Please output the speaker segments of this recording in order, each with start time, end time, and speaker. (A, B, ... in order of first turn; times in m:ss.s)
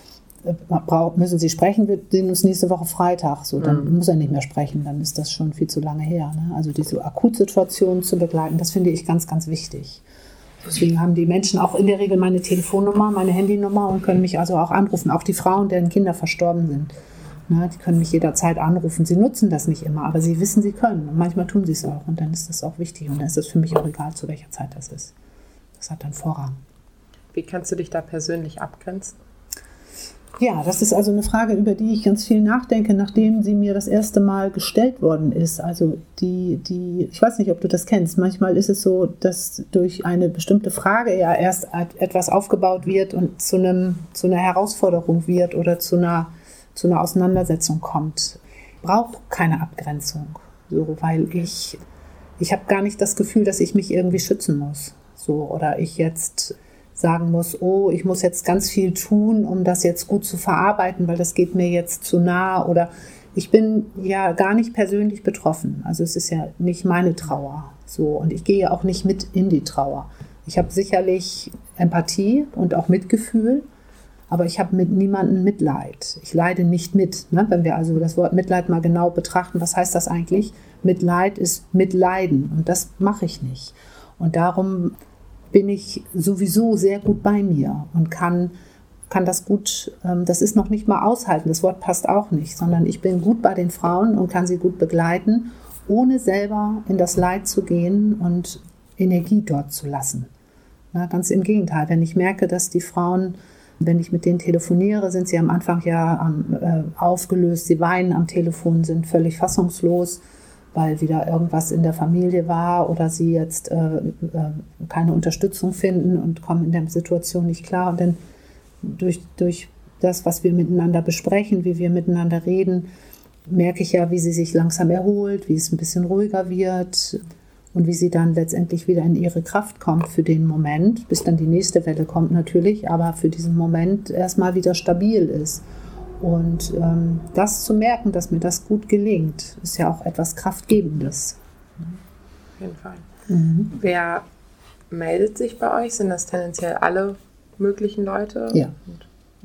0:00.4-0:10.0 A
0:03.6-0:03.9 B
0:10.6-0:16.9 A
0:17.5-0:25.1 A
0:25.8-0:26.6 A
0:27.3-0:29.2 B
0:30.4-0:51.8 A
0:52.4-1:13.6 A
1:14.3-1:25.0 A
1:25.5-1:28.5 A
1:29.1-1:40.3 A
1:40.9-1:50.2 A
1:50.7-1:58.2 A
1:58.8-2:02.9 A
2:03.5-2:07.2 A
2:07.7-2:15.6 A
2:16.2-2:22.0 A
2:22.6-2:23.1 B
2:23.3-2:23.8 A
2:23.8-2:24.2 B
2:24.9-2:29.1 B